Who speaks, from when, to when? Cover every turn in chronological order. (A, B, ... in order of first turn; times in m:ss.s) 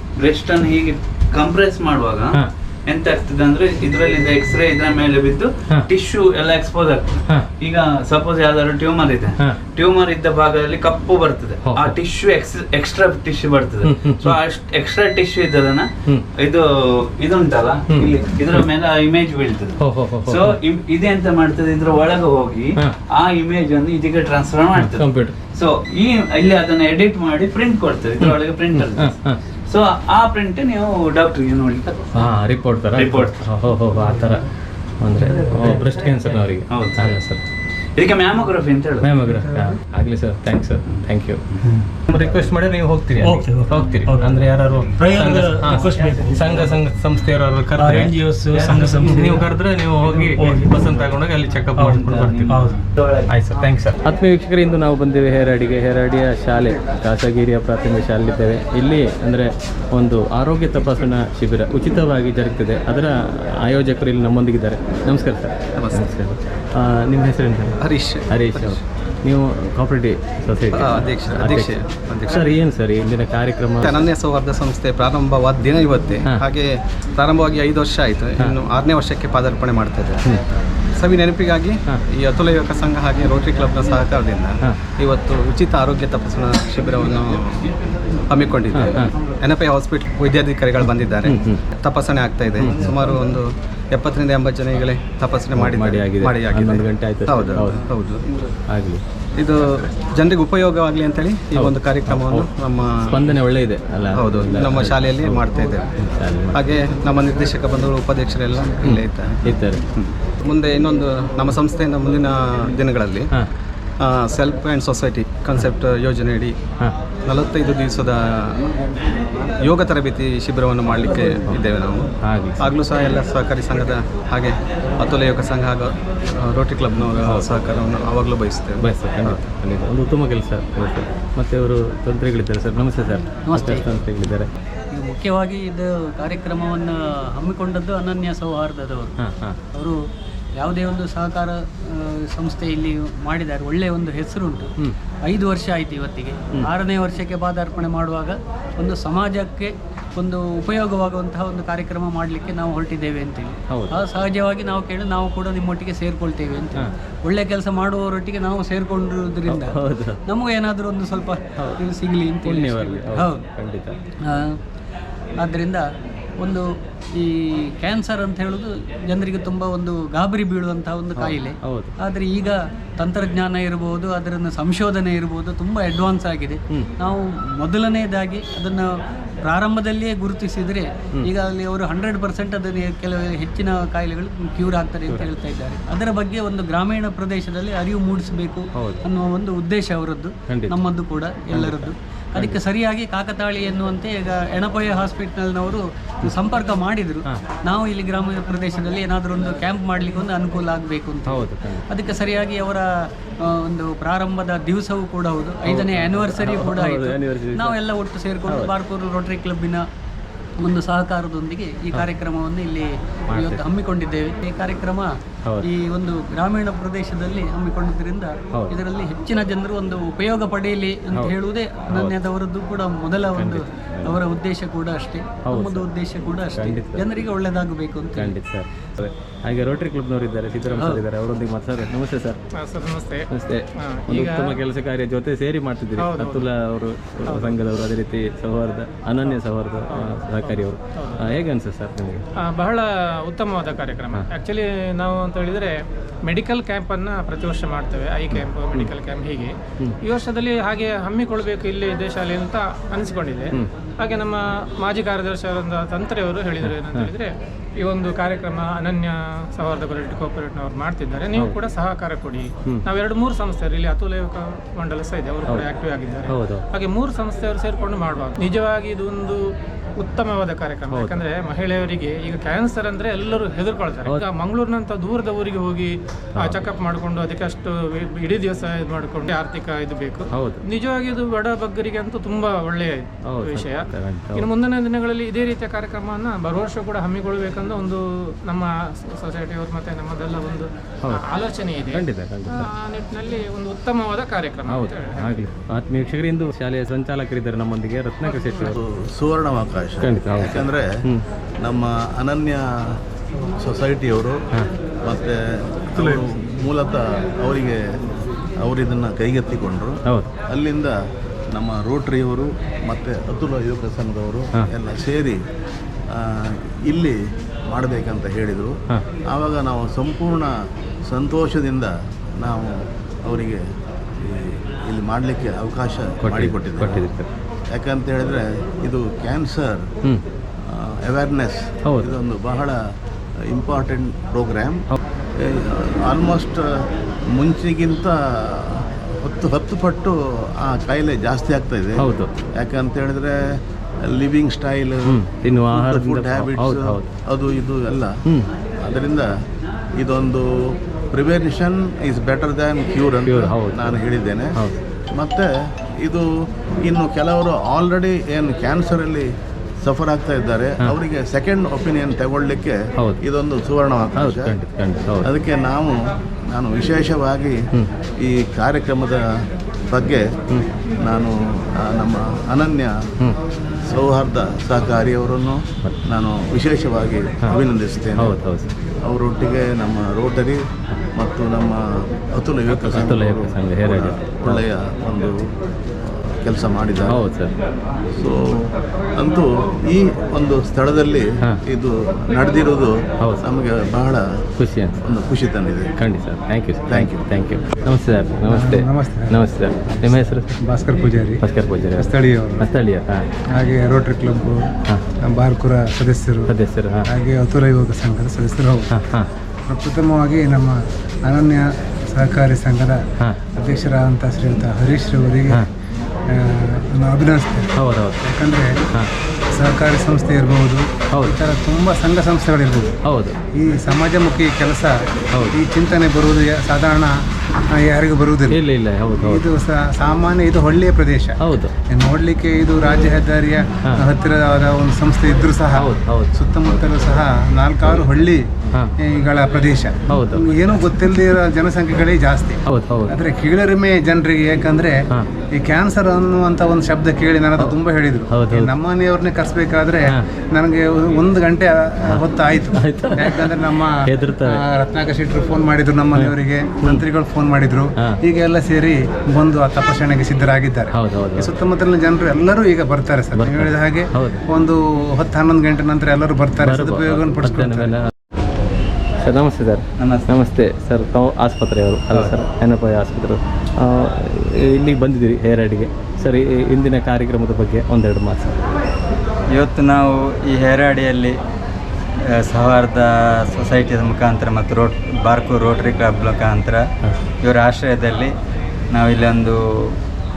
0:00.2-0:15.9 A
0:11.6-0:11.9 B
0:13.8-0:14.4 B
0:16.4-0:32.2 A
0:19.8-0:20.6 B
0:24.7-0:25.4 B
0:28.2-0:29.4 B
0:32.1-0:34.4 B
0:32.9-0:33.4 A
0:35.0-0:37.4 B
0:36.7-0:37.2 A
0:38.0-0:39.1 A
0:39.0-0:41.4 B
0:42.1-0:48.2 B
0:43.2-0:46.8 C
0:47.8-0:49.5 C
0:48.7-0:52.5 B
0:50.4-0:50.8 C
0:51.8-0:52.8 C
0:53.3-1:07.8 B
1:05.8-1:06.1 D
1:07.8-1:08.8 D
1:08.3-1:11.7 B
1:10.7-1:12.5 D
1:12.3-1:13.9 B
1:13.8-1:20.2 D
1:21.0-1:27.7 D
1:28.3-1:38.2 D
1:28.8-1:29.1 B
1:31.2-1:31.6 B
1:32.6-1:32.9 B
1:35.5-1:37.8 B
1:38.7-1:39.0 B
1:39.4-1:43.2 D
1:41.6-1:42.5 B
1:43.1-1:45.4 B
1:44.2-1:45.9 D
1:46.0-1:46.6 B
1:46.5-1:49.4 D
1:48.8-1:49.8 B
1:50.0-1:53.3 D
1:54.0-1:56.6 D
1:57.3-1:58.7 D
1:59.6-2:02.1 D
2:02.2-2:02.7 B
2:02.6-2:09.4 D
2:07.2-2:07.6 B
2:08.8-2:14.5 B
2:13.5-2:13.9 E
2:15.0-2:16.9 E
2:17.5-2:19.1 E
2:19.2-2:19.6 B
2:20.7-2:21.5 E
2:22.4-2:24.7 E
2:25.3-2:29.7 E
2:30.2-2:43.4 E
2:39.5-2:40.2 B
2:42.4-2:44.0 B
2:45.5-2:45.8 E
2:47.8-2:58.8 E
2:51.2-2:51.9 B
2:59.5-3:22.8 E
3:08.8-3:09.0 B
3:10.5-3:10.8 B
3:11.5-3:12.6 B
3:21.3-3:21.8 B
3:23.7-3:29.8 E
3:25.7-3:27.8 B
3:28.5-3:28.7 B
3:30.7-3:35.1 E
3:33.3-3:33.6 B
3:35.6-3:48.4 E
3:41.9-3:42.2 B
3:43.3-3:44.2 B
3:45.4-3:45.9 B
3:46.5-3:47.0 B
3:48.2-3:52.4 B
3:50.8-3:51.0 E
3:52.6-3:53.3 F
3:53.3-4:02.2 B
3:53.9-3:54.6 F
3:56.0-3:56.4 F
3:57.3-3:57.5 F
3:59.9-4:01.2 F
4:02.5-4:29.4 F
4:08.3-4:08.9 B
4:16.6-4:17.1 B
4:26.3-4:26.6 B
4:30.0-4:43.8 F
4:30.9-4:31.2 B
4:36.4-4:36.6 B
4:40.3-4:40.7 B
4:43.3-4:44.5 B
4:44.4-4:48.7 F
4:49.2-4:55.3 F
4:51.9-4:52.7 B
4:54.7-4:58.8 B
4:58.7-5:00.9 G
5:00.0-5:01.2 B
5:01.6-5:02.7 G
5:03.6-5:04.4 G
5:05.0-5:07.8 G
5:08.6-5:10.0 G
5:10.5-5:11.0 G
5:11.5-5:15.4 G
5:16.1-5:17.2 G
5:17.7-5:18.7 G
5:19.3-5:20.5 G
5:21.1-5:23.6 G
5:24.2-5:27.0 G
5:26.2-5:27.3 B
5:27.7-5:29.8 G
5:30.7-5:32.8 G
5:31.9-5:32.1 B
5:33.5-5:34.8 G
5:35.4-5:36.7 G
5:37.3-5:43.4 G
5:42.0-5:42.3 B
5:44.1-5:45.2 G
5:45.1-5:47.1 B
5:45.7-5:48.1 G
5:48.8-5:49.3 G
5:50.0-5:54.5 G
5:53.2-5:54.0 B
5:55.1-5:55.5 G
5:56.0-5:56.3 G
5:56.8-5:59.3 G
5:59.8-6:04.6 G
6:04.2-6:05.3 B
6:05.2-6:07.5 G
6:08.2-6:09.2 G
6:09.9-6:10.2 G
6:11.0-6:12.9 G
6:13.9-6:18.4 G
6:18.2-6:18.7 B
6:19.0-6:20.6 G
6:21.2-6:21.8 G
6:22.3-6:25.4 G
6:22.7-6:24.6 B
6:26.0-6:27.2 G
6:27.1-6:27.5 B
6:28.2-6:34.3 G
6:34.6-6:35.0 B
6:35.0-6:35.9 G
6:36.0-6:40.6 B
6:36.9-6:37.3 G
6:38.4-6:39.4 H
6:40.1-6:41.4 H
6:41.4-6:42.1 B
6:42.0-6:42.7 H
6:42.6-6:43.3 B
6:43.5-6:44.6 H
6:45.3-6:46.5 H
6:46.5-6:47.1 B
6:47.1-6:48.9 H
6:48.9-6:49.3 B
6:49.7-6:53.0 H
6:53.6-6:55.7 H
6:56.3-6:57.7 H
6:57.8-6:58.2 B
6:58.2-6:58.8 H
6:59.6-7:02.9 H
7:03.0-7:03.4 B
7:03.6-7:05.0 H
7:05.5-7:07.1 H
7:07.7-7:08.6 H
7:08.5-7:09.4 B
7:09.2-7:11.4 H
7:11.4-7:11.7 B
7:11.9-7:18.4 H
7:15.8-7:16.4 B
7:19.0-7:25.0 H
7:20.1-7:20.9 B
7:22.7-7:23.2 B
7:25.6-7:48.0 H
7:28.3-7:28.6 B
7:32.1-7:34.6 B
7:36.2-7:37.0 B
7:40.9-7:41.5 B
7:43.4-7:44.4 B
7:46.6-7:48.1 B
7:49.2-7:58.6 B
7:50.0-7:50.3 I
7:59.5-8:01.4 I
8:02.3-8:06.8 I
8:07.4-8:08.3 I
8:08.9-8:09.9 I